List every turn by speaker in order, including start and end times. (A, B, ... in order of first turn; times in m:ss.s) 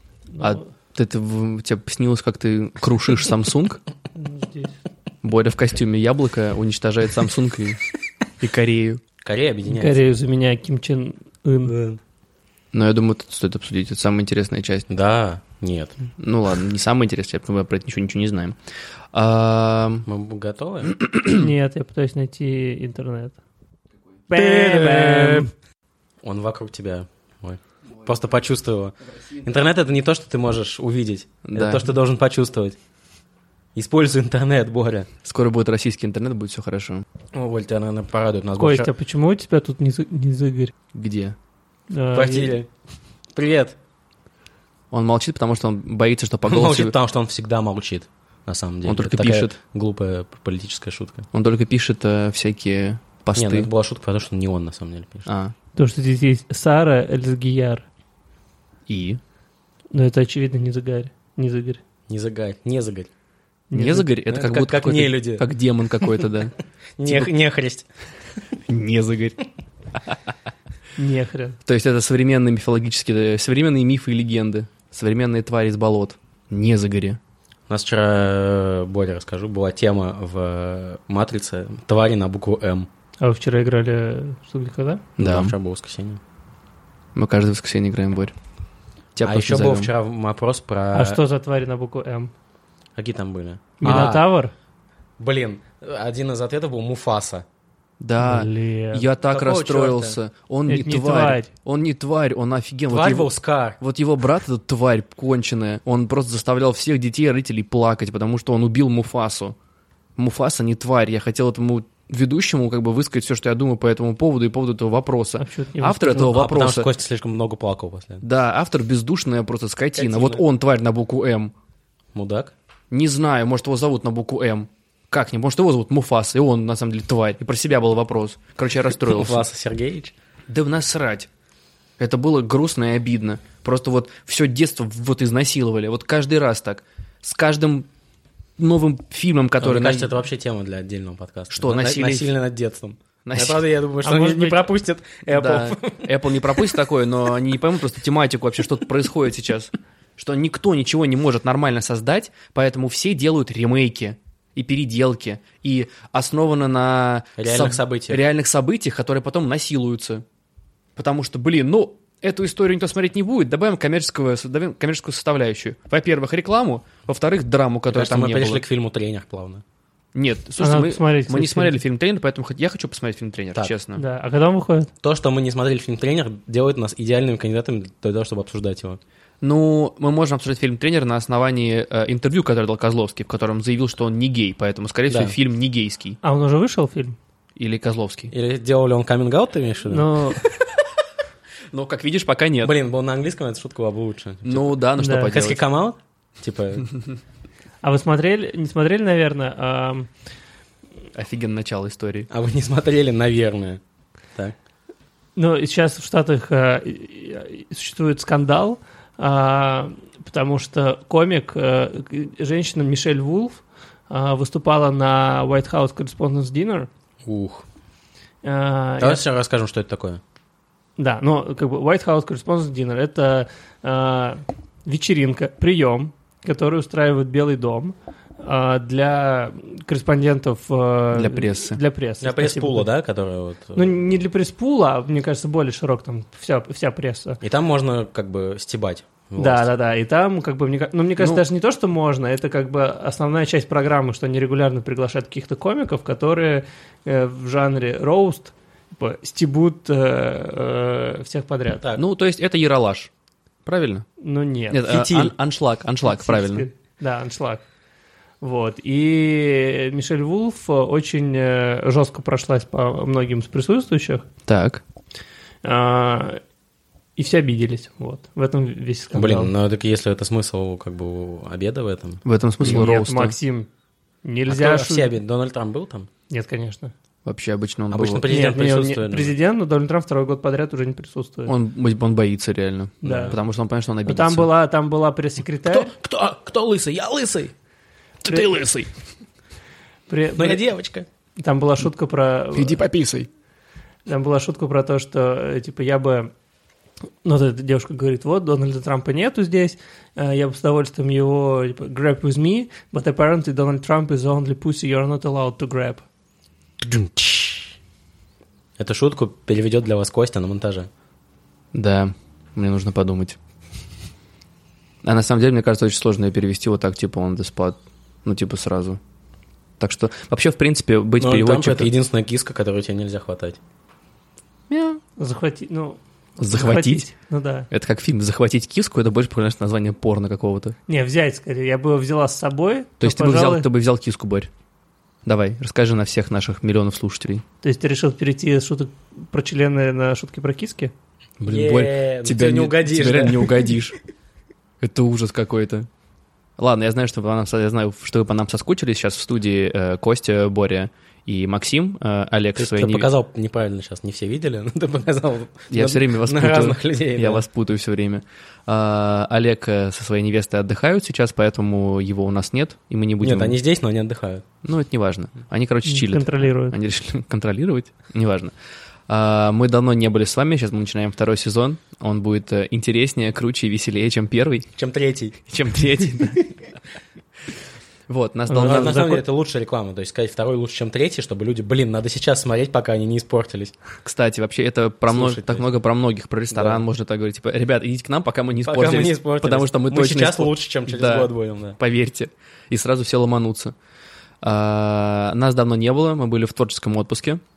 0:00.3-0:00.6 A
0:00.4-0:03.8 B
0:04.2-0:04.8 A
0:05.2-0:07.8 B
0:08.4-0:09.0 B
0:09.2-0:10.0 C
0:09.7-0:11.8 A
0:12.7-0:14.9 B
0:14.9-0:16.0 C
0:16.2-0:18.6 B
0:19.1-0:20.1 B
0:20.1-0:21.0 C
0:20.9-0:21.5 B
0:21.2-0:23.4 A
0:24.3-0:25.5 A
0:24.3-0:25.5 C
0:26.2-0:32.8 C
0:31.4-0:31.9 B
0:33.7-0:35.1 C
0:35.2-0:37.0 B
0:37.3-0:38.9 C
0:38.6-0:40.7 A
0:40.9-0:41.4 B
0:41.9-0:42.6 A
0:42.1-0:42.7 C
0:43.3-0:43.8 C
0:44.9-0:46.9 B
0:46.5-0:51.2 C
0:48.8-0:49.5 B
0:51.3-0:53.7 B
0:53.3-0:55.3 C
0:55.3-0:55.5 B
0:55.8-0:57.8 A
0:58.9-0:59.2 B
0:59.9-1:01.8 A
1:02.1-1:03.1 C
1:03.7-1:04.1 A
1:03.7-1:06.5 B
1:04.3-1:05.5 C
1:07.0-1:07.9 C
1:08.7-1:09.4 B
1:10.0-1:10.3 B
1:11.0-1:11.6 A
1:11.6-1:17.2 B
1:17.7-1:22.9 C
1:23.2-1:25.0 A
1:25.2-1:25.5 B
1:25.2-1:26.2 C
1:27.1-1:28.3 B
1:29.1-1:29.9 B
1:29.2-1:31.2 C
1:30.9-1:32.3 A
1:33.0-1:34.3 C
1:33.8-1:34.5 A
1:33.8-1:34.1 B
1:35.2-1:37.4 C
1:38.0-1:43.3 B
1:38.2-1:39.0 A
1:39.2-1:40.2 C
1:40.7-1:41.5 A
1:42.9-1:43.8 C
1:43.8-1:49.6 B
1:50.2-1:56.9 B
1:55.4-1:56.3 A
1:56.1-1:58.2 C
1:58.2-2:01.5 B
1:59.9-2:00.4 C
2:02.1-2:02.5 C
2:02.9-2:09.4 B
2:09.1-2:10.1 C
2:10.5-2:11.3 B
2:12.0-2:17.9 B
2:18.6-2:20.1 B
2:19.6-2:26.1 C
2:21.5-2:22.3 B
2:23.2-2:23.6 B
2:24.0-2:24.7 A
2:25.3-2:40.2 B
2:37.4-2:38.2 C
2:41.0-2:48.6 B
2:47.9-2:49.6 C
2:50.1-2:54.0 B
2:50.6-2:51.7 A
2:54.0-2:54.9 A
2:55.0-2:59.0 C
2:59.4-3:06.2 B
3:05.1-3:05.3 C
3:06.2-3:07.2 A
3:07.6-3:08.3 B
3:08.3-3:10.1 C
3:09.9-3:10.4 A
3:11.7-3:12.7 B
3:12.6-3:16.9 C
3:14.4-3:15.6 B
3:15.0-3:15.4 A
3:17.8-3:20.1 A
3:21.1-3:22.3 B
3:22.3-3:23.8 C
3:25.4-3:36.9 A
3:37.2-3:37.6 C
3:38.4-3:39.2 A
3:39.0-3:40.2 C
3:41.0-3:52.9 A
3:51.1-3:51.8 B
3:52.2-3:54.0 C
3:53.8-3:57.4 A
3:57.4-3:59.7 C
3:59.4-4:11.9 A
4:12.0-4:13.1 B
4:13.6-4:14.0 B
4:14.2-4:14.9 A
4:14.7-4:16.7 B
4:14.8-4:15.3 C
4:16.0-4:17.6 A
4:18.4-4:24.2 A
4:24.5-4:24.8 B
4:25.6-4:26.4 A
4:27.2-4:29.5 A
4:29.1-4:32.7 C
4:32.2-4:33.4 B
4:32.6-4:33.7 A
4:34.2-4:35.1 A
4:34.5-4:36.1 C
4:36.3-4:36.9 A
4:37.2-4:38.2 B
4:37.9-4:39.3 C
4:38.3-4:41.5 A
4:41.4-4:44.5 B
4:43.0-4:43.4 C
4:43.0-4:43.4 A
4:44.0-4:45.9 A
4:45.7-4:47.5 C
4:48.2-4:48.9 B
4:50.1-4:50.6 A
4:50.4-4:51.0 C
4:51.4-4:52.8 A
4:52.5-4:53.3 B
4:54.1-4:56.3 A
4:57.2-5:06.0 A
5:06.8-5:07.7 C
5:08.8-5:10.9 C
5:11.7-5:13.4 B
5:15.0-5:19.0 B
5:19.8-5:21.9 B
5:21.2-5:23.6 C
5:24.7-5:25.0 B
5:25.2-5:26.0 A
5:26.4-5:27.0 B
5:26.5-5:27.7 A
5:27.7-5:30.7 B
5:30.9-5:33.6 A
5:33.0-5:34.5 B
5:35.2-5:37.4 B
5:37.6-5:40.9 A
5:41.4-5:43.9 B
5:41.5-5:43.7 C
5:44.8-5:45.9 B
5:46.6-5:53.1 B
5:52.6-5:57.4 C
5:55.7-6:03.6 B
6:03.2-6:04.4 C
6:04.6-6:08.5 B
6:05.8-6:06.8 A
6:09.1-6:14.7 B
6:14.8-6:15.4 C
6:15.5-6:16.6 B
6:18.1-6:19.2 B
6:18.5-6:23.7 C
6:24.0-6:33.7 B
6:25.1-6:25.6 C
6:26.5-6:26.8 C
6:28.6-6:31.8 C
6:34.4-6:37.4 B